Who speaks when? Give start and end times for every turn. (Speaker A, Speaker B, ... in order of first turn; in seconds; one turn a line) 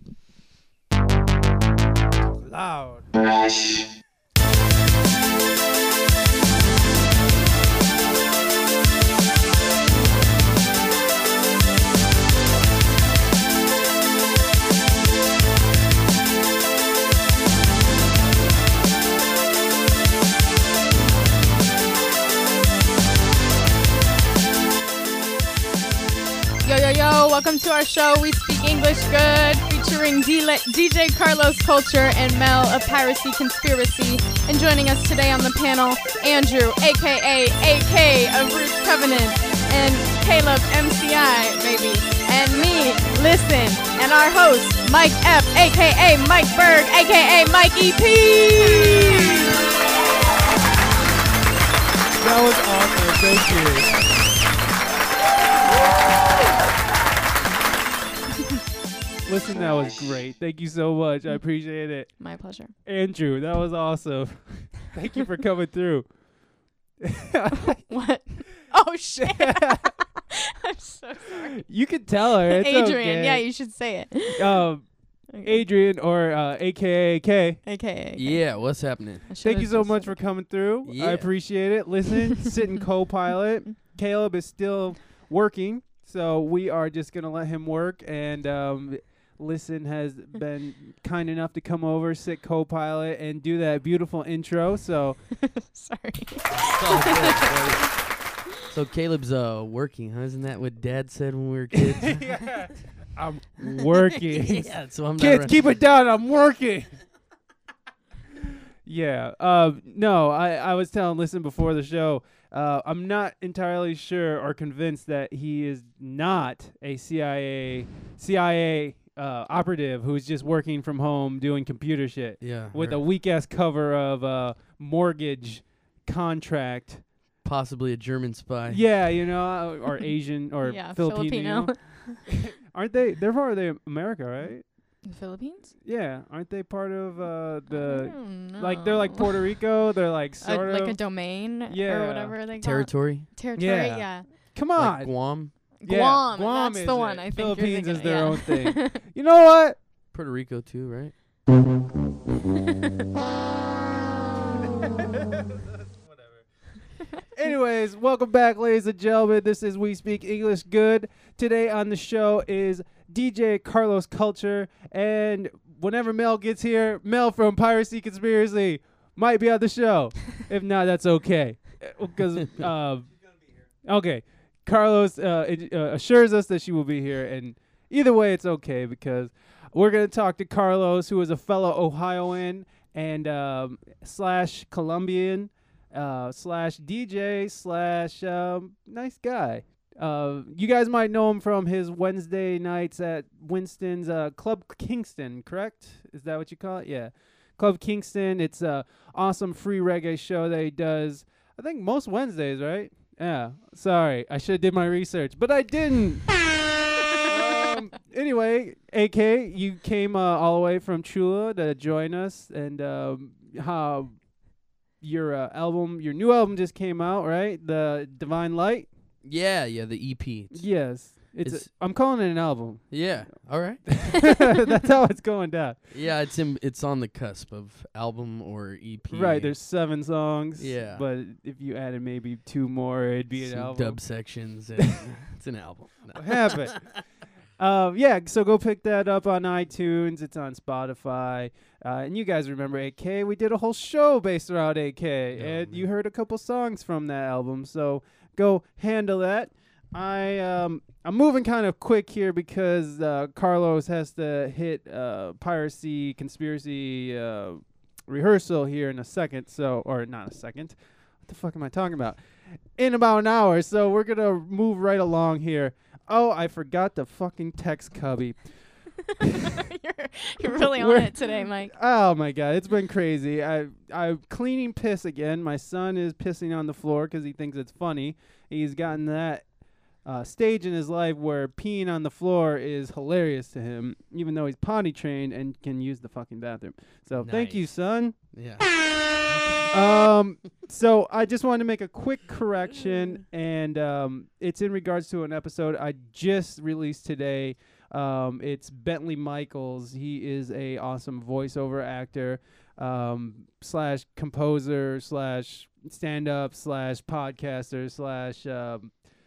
Speaker A: 2.4-3.0
Speaker B: 26.6-49.5
Speaker A: 52.2-53.9
Speaker B: 53.9-54.2
Speaker A: 59.2-62.1
Speaker B: 62.2-62.7
Speaker A: 62.8-66.0
Speaker A: 67.0-67.8
Speaker B: 67.7-71.7
Speaker A: 69.1-69.9
Speaker A: 71.6-73.4
Speaker B: 72.5-74.6
Speaker A: 74.3-74.8
Speaker B: 75.3-75.6
Speaker A: 75.4-77.6
Speaker B: 77.6-78.6
Speaker C: 78.2-79.3
Speaker B: 79.3-80.2
Speaker A: 79.4-95.2
Speaker C: 80.8-81.3
Speaker B: 95.4-97.9
Speaker C: 96.5-97.8
Speaker C: 98.7-102.2
Speaker A: 101.7-106.9
Speaker C: 104.4-105.6
Speaker A: 108.8-127.0
Speaker C: 122.4-123.0
Speaker C: 127.4-128.8
Speaker A: 128.7-131.7
Speaker B: 130.6-132.2
Speaker A: 132.2-134.6
Speaker B: 135.1-135.7
Speaker A: 135.8-141.0
Speaker B: 137.7-139.6
Speaker B: 140.4-144.3
Speaker A: 141.7-142.3
Speaker C: 142.6-143.3
Speaker A: 143.6-145.2
Speaker C: 144.8-145.5
Speaker B: 145.8-149.0
Speaker A: 145.8-149.8
Speaker C: 150.1-151.1
Speaker A: 157.3-173.1
Speaker A: 173.8-206.3
Speaker A: 207.2-214.1
Speaker A: 215.0-218.9
Speaker C: 219.2-220.7
Speaker A: 220.5-223.0
Speaker C: 221.4-221.7
Speaker C: 222.9-224.0
Speaker A: 223.9-225.8
Speaker C: 225.9-229.5
Speaker A: 229.1-234.0
Speaker C: 230.6-231.0
Speaker C: 233.4-236.8
Speaker A: 236.2-236.8
Speaker A: 237.6-262.2
Speaker C: 245.3-245.8
Speaker A: 262.8-268.4
Speaker A: 269.2-269.5
Speaker B: 269.3-271.7
Speaker A: 270.5-271.1
Speaker A: 271.7-279.4
Speaker A: 280.1-288.1
Speaker C: 287.2-287.7
Speaker C: 288.3-288.6
Speaker A: 289.7-308.9